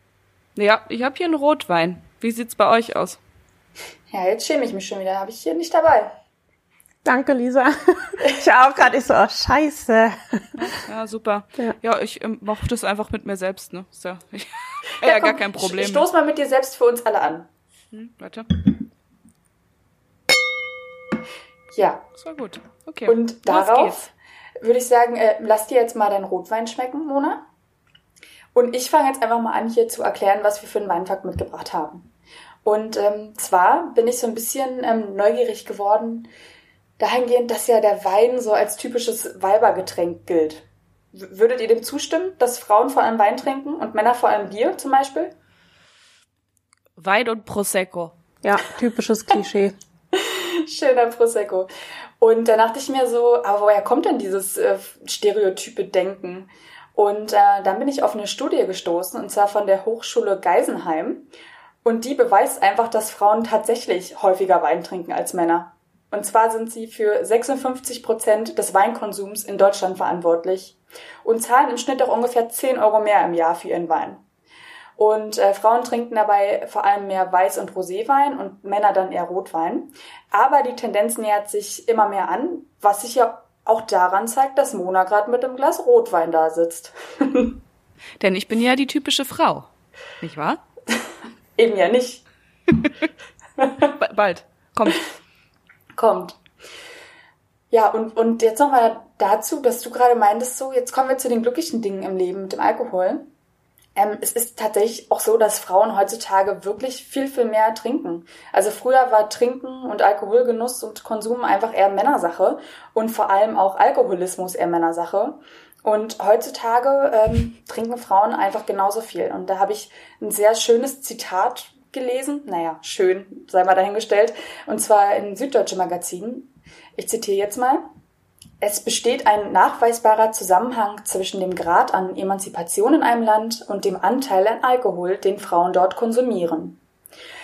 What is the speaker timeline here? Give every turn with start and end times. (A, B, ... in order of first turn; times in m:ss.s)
0:00.6-0:03.2 A
0:04.1-0:06.1 B
0:07.0-0:10.6 C
0:10.6-0:16.1 A
0:15.0-0:17.5 B
0:17.9-0:18.5 A
0:21.7-0:22.0 B
0:22.2-0:24.0 A
0:23.1-0:24.1 B
0:24.6-0:27.4 B
0:28.6-0:32.1 B
0:32.6-0:36.3 B
0:37.0-0:45.3 B
0:47.0-0:48.2 A
0:48.4-0:49.8 C
0:50.2-0:51.7 B
0:52.2-1:01.3 B
1:01.8-1:14.2 B
1:15.0-1:27.6 B
1:28.2-1:29.7 A
1:30.2-1:30.6 A
1:31.6-1:32.2 B
1:33.6-1:33.9 B
1:34.0-1:35.0 A
1:36.0-1:36.4 B
1:37.7-1:43.3 B
1:44.0-2:07.8 B
2:08.6-2:16.8 B